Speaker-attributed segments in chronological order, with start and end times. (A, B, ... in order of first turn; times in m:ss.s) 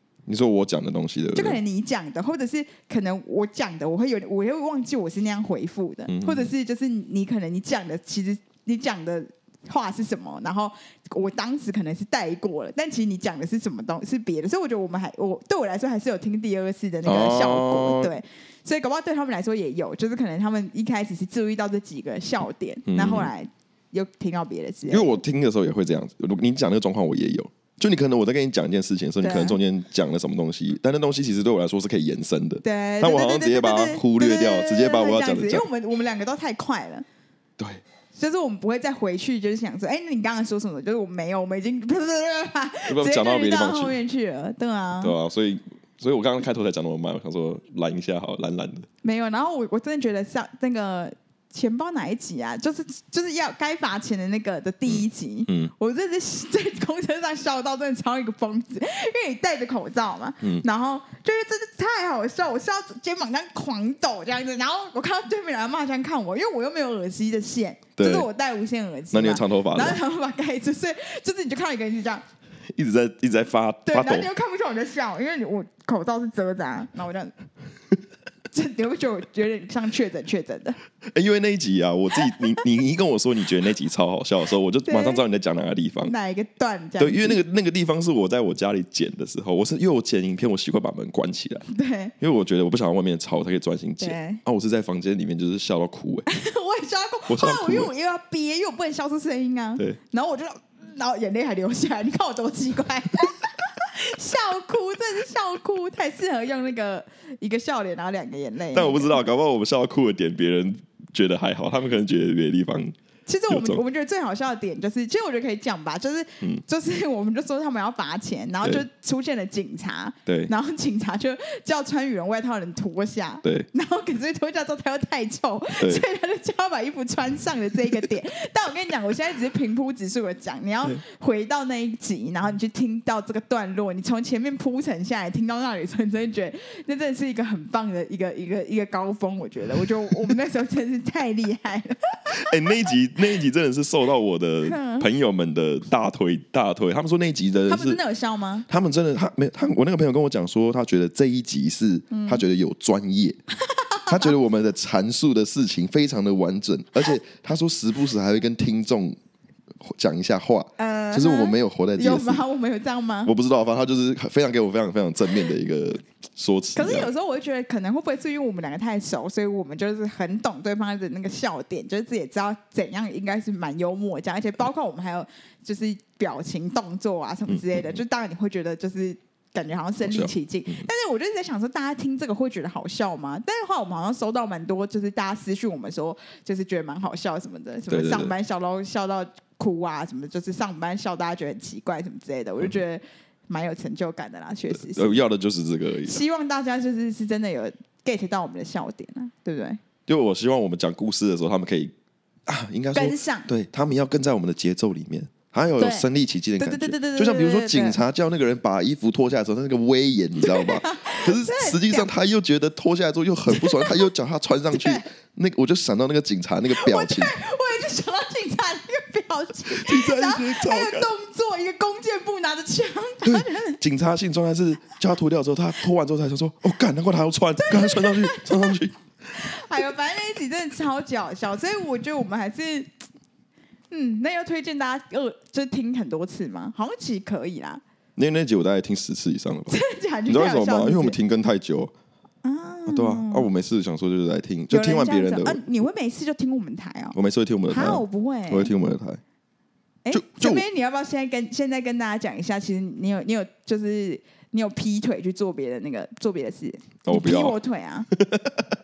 0:00.3-0:01.6 A
0:01.4-0:25.2 B
0:06.1-0:06.5 A
0:17.0-0:18.1 A
0:22.9-0:23.3 A
0:24.9-0:35.7 A
0:29.2-0:29.6 B
0:32.6-0:37.1 B
0:38.1-0:45.2 B
0:42.9-0:44.0 A
0:45.0-0:48.9 A
0:49.0-1:12.2 B
0:54.9-0:55.7 A
1:08.0-1:08.3 A
1:09.1-1:10.0 A
1:12.7-1:14.3 A
1:13.8-1:17.3 B
1:18.5-1:20.8 B
1:21.1-1:26.1 A
1:24.9-1:25.2 B
1:26.0-1:27.4 B
1:27.0-1:31.7 A
1:31.7-1:32.2 B
1:32.2-1:36.3 A
1:34.0-1:34.4 B
1:36.3-1:49.3 B
1:37.3-1:37.9 A
1:48.7-1:53.0 A
1:53.3-2:22.4 B
1:53.5-1:53.8 A
2:00.3-2:00.5 A
2:22.3-2:28.0 A
2:24.6-2:25.1 B
2:27.7-2:28.7 B
2:28.7-2:33.4 A
2:32.1-2:32.4 B
2:33.6-2:34.3 B
2:34.1-2:39.2 A
2:39.8-2:42.4 A
2:40.8-2:43.3 B
2:43.2-2:47.1 A
2:46.8-3:15.2 B
2:57.5-2:58.0 A
3:00.0-3:00.9 A
3:07.9-3:08.3 A
3:14.7-3:16.2 A
3:16.1-3:19.8 B
3:20.1-3:21.9 A
3:22.5-3:37.4 A
3:22.9-3:23.5 B
3:25.8-3:26.1 B
3:26.6-3:28.0 B
3:30.4-3:32.1 B
3:33.5-3:34.1 B
3:34.7-3:35.0 B
3:36.7-3:43.8 B
3:39.7-3:41.1 A
3:43.2-3:49.0 A
3:47.6-3:48.8 B
3:49.3-3:52.9 B
3:53.9-3:57.8 B
3:58.2-4:01.9 A
3:59.7-4:01.2 B
4:02.4-4:03.5 B
4:02.9-4:05.6 A
4:04.7-4:07.2 B
4:07.1-4:09.2 A
4:07.7-4:08.7 B
4:10.0-4:18.1 B
4:10.1-4:10.6 A
4:17.1-4:17.6 A
4:18.2-4:18.6 A